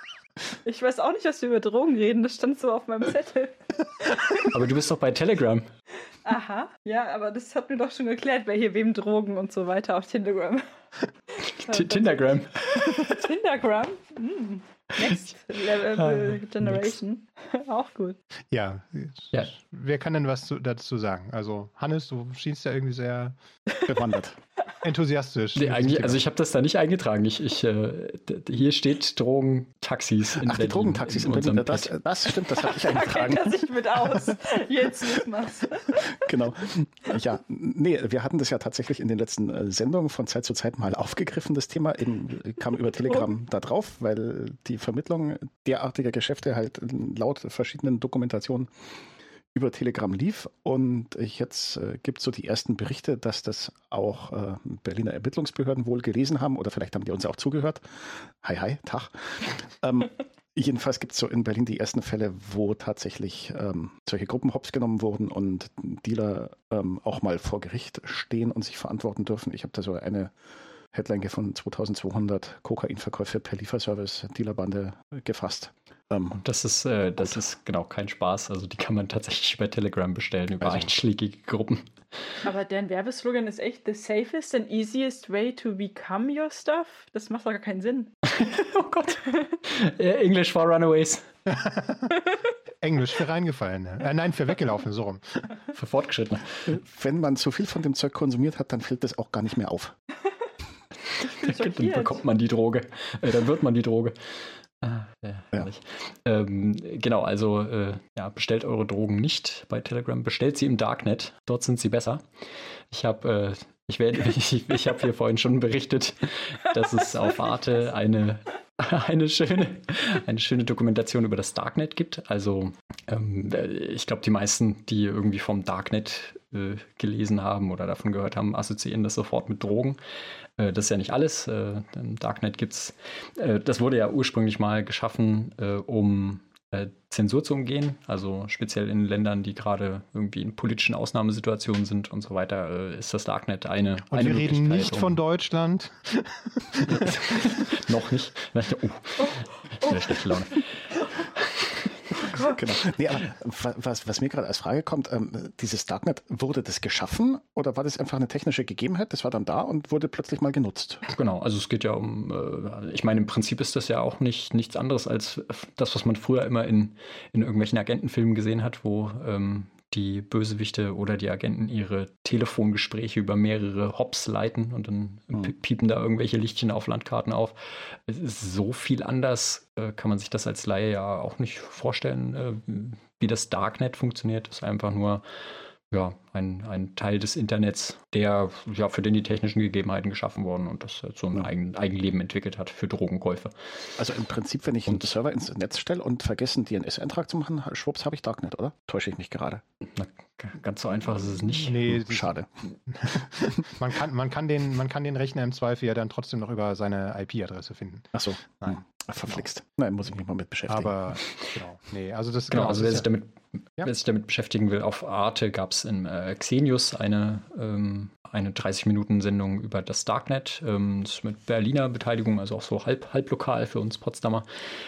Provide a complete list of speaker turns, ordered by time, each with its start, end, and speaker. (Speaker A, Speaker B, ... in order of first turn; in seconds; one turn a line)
Speaker A: 0.6-4.5
Speaker B: 4.5-5.7
Speaker A: 6.2-10.6
Speaker B: 11.5-13.2
Speaker A: 11.7-18.2
Speaker B: 15.9-17.0
Speaker C: 18.5-23.4
Speaker D: 23.9-24.4
Speaker C: 24.8-26.2
Speaker B: 25.6-31.9
Speaker D: 30.4-33.6
Speaker A: 32.7-36.1
Speaker D: 36.0-48.7
Speaker D: 49.5-70.3
Speaker D: 70.9-76.4
Speaker B: 76.3-81.9
Speaker D: 80.6-80.9
Speaker A: 82.4-88.1
Speaker B: 88.3-91.3
Speaker C: 91.5-92.1
Speaker C: 92.8-95.5
Speaker B: 95.7-96.8
Speaker D: 96.7-99.9
Speaker A: 101.2-102.2
Speaker B: 101.2-104.2
Speaker B: 104.8-112.2
Speaker B: 112.9-130.0
Speaker B: 130.6-145.2
Speaker C: 144.1-147.3
Speaker B: 146.9-150.7
Speaker A: 149.2-150.3
Speaker B: 151.2-151.9
Speaker A: 152.2-152.6
Speaker D: 152.3-161.0
Speaker B: 161.1-185.2
Speaker B: 185.9-194.0
Speaker D: 194.0-199.6
Speaker B: 199.9-201.8
Speaker C: 201.5-202.4
Speaker D: 201.9-202.5
Speaker C: 202.9-209.4
Speaker D: 208.1-211.2
Speaker C: 210.7-213.1
Speaker B: 212.5-224.5